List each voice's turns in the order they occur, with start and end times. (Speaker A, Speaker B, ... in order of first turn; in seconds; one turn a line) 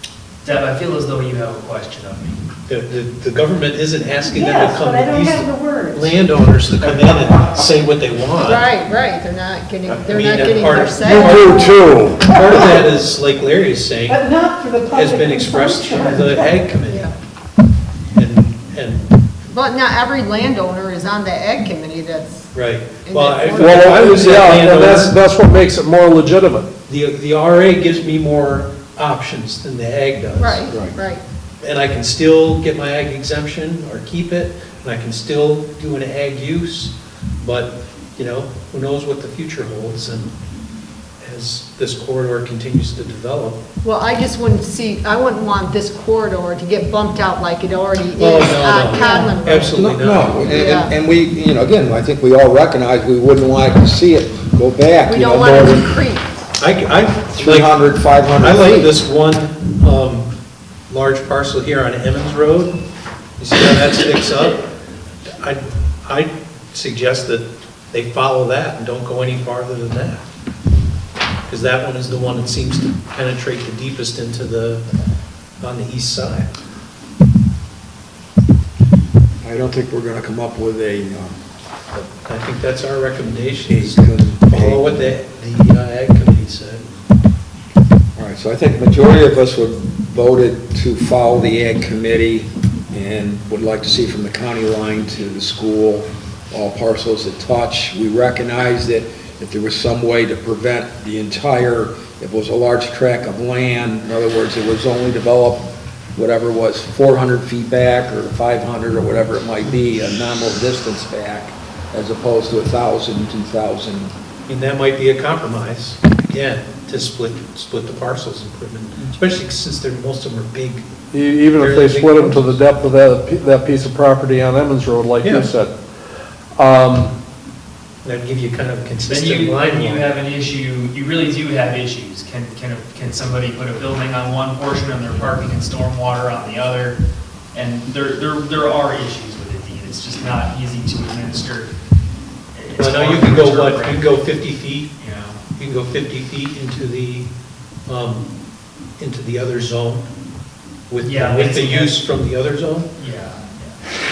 Speaker A: 0.4-2.5
Speaker B: 2.7-8.7
Speaker C: 4.2-7.4
Speaker D: 8.4-11.7
Speaker B: 10.1-11.6
Speaker E: 10.9-12.7
Speaker C: 11.4-12.6
Speaker B: 12.2-14.3
Speaker C: 14.1-16.6
Speaker B: 14.9-17.1
Speaker D: 16.9-17.1
Speaker B: 18.1-19.1
Speaker D: 19.5-24.4
Speaker B: 22.5-25.1
Speaker E: 23.5-26.7
Speaker B: 26.9-30.6
Speaker D: 30.4-31.2
Speaker F: 30.7-31.0
Speaker B: 31.6-40.3
Speaker B: 41.2-43.6
Speaker D: 43.8-49.8
Speaker B: 48.2-50.4
Speaker C: 49.0-49.3
Speaker F: 49.7-56.0
Speaker D: 50.4-50.9
Speaker D: 55.0-56.5
Speaker B: 56.6-57.8
Speaker F: 57.3-58.9
Speaker B: 58.4-60.3
Speaker B: 60.9-62.8
Speaker B: 63.4-64.6
Speaker B: 65.4-70.2
Speaker B: 71.5-74.8
Speaker B: 75.6-76.5
Speaker F: 79.4-81.3
Speaker B: 81.9-86.9
Speaker F: 83.7-85.1
Speaker F: 88.2-114.1
Speaker B: 114.5-120.8
Speaker E: 121.1-127.2
Speaker B: 121.5-122.6
Speaker B: 125.2-125.5
Speaker B: 128.0-130.1
Speaker A: 129.0-137.0
Speaker A: 137.5-141.7
Speaker A: 142.5-144.1
Speaker B: 142.8-144.9
Speaker A: 145.0-145.4
Speaker B: 145.6-147.3
Speaker B: 147.9-148.3
Speaker B: 149.0-150.1
Speaker B: 150.9-152.9
Speaker A: 151.0-152.0
Speaker A: 152.9-153.8